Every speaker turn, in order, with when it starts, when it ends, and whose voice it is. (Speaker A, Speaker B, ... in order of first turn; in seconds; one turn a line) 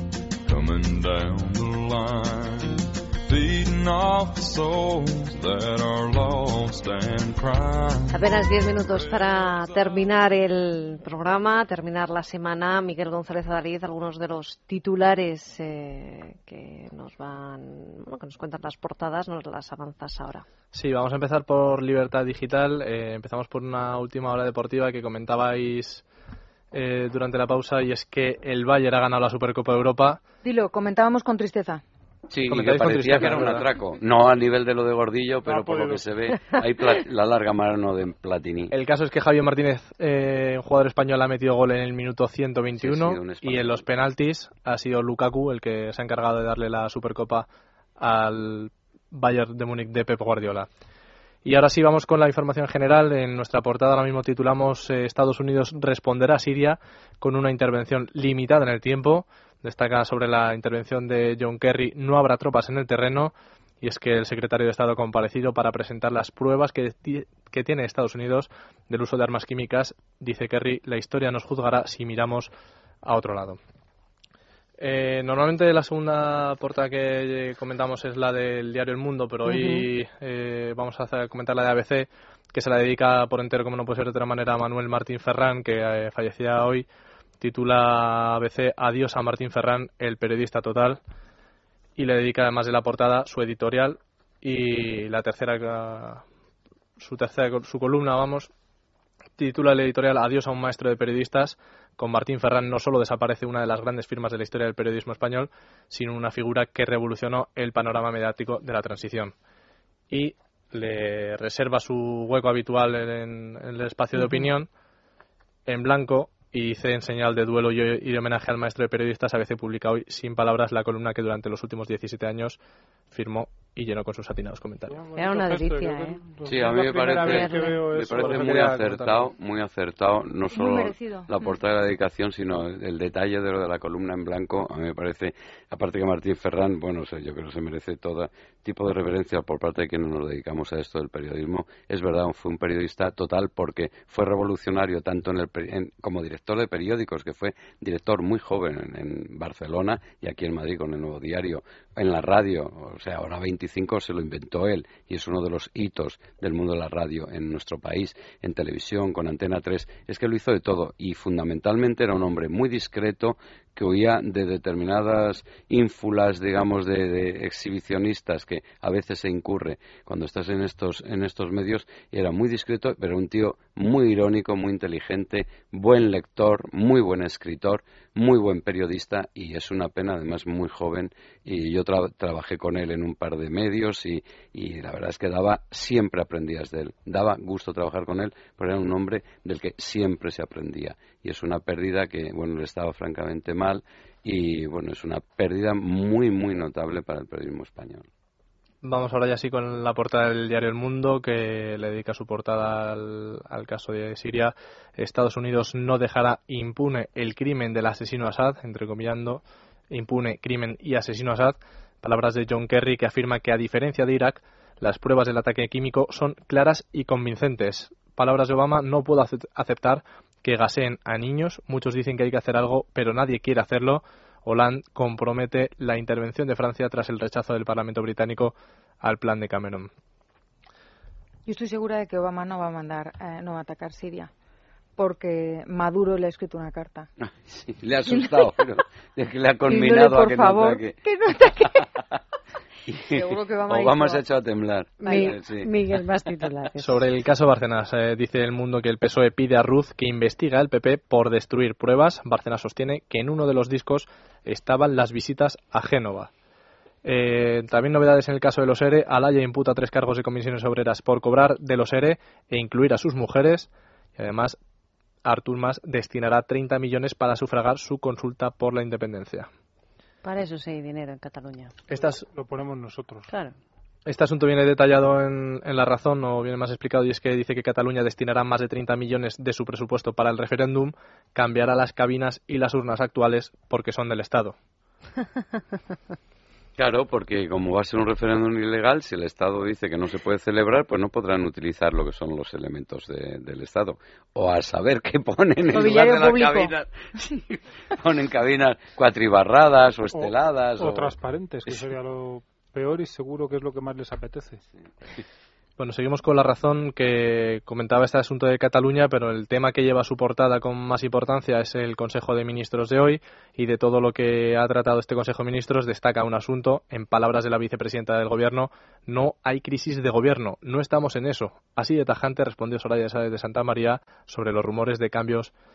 Speaker A: 0.4-10.1
Speaker B: 8.1-20.4
Speaker C: 20.7-26.0
Speaker C: 26.7-30.2
Speaker D: 30.4-31.8
Speaker E: 32.3-38.7
Speaker C: 32.5-33.7
Speaker F: 35.5-36.1
Speaker C: 38.7-47.5
Speaker E: 42.8-43.9
Speaker C: 48.0-50.7
Speaker C: 51.4-72.5
Speaker C: 73.0-73.6
Speaker C: 74.8-86.9
Speaker B: 79.5-79.8
Speaker C: 87.4-91.0
Speaker C: 92.0-96.2
Speaker C: 97.0-98.5
Speaker C: 99.4-109.3
Speaker C: 110.1-114.7
Speaker C: 115.7-122.6
Speaker C: 123.1-125.0
Speaker F: 124.9-129.2
Speaker B: 125.2-126.2
Speaker E: 126.5-198.1
Speaker B: 127.2-127.8
Speaker D: 130.6-131.3
Speaker C: 198.8-229.9
Speaker D: 231.5-234.3
Speaker D: 235.0-237.1
Speaker E: 237.3-240.9
Speaker D: 239.7-241.9
Speaker E: 242.9-245.7
Speaker D: 243.1-244.2
Speaker B: 245.0-247.0
Speaker D: 245.0-245.3
Speaker C: 246.8-256.3
Speaker C: 257.0-264.6
Speaker C: 265.2-269.5
Speaker B: 270.2-271.8
Speaker C: 271.9-272.2
Speaker F: 271.9-273.3
Speaker C: 274.1-284.6
Speaker E: 286.8-301.1
Speaker D: 295.7-296.7
Speaker F: 300.1-304.6
Speaker C: 305.8-325.5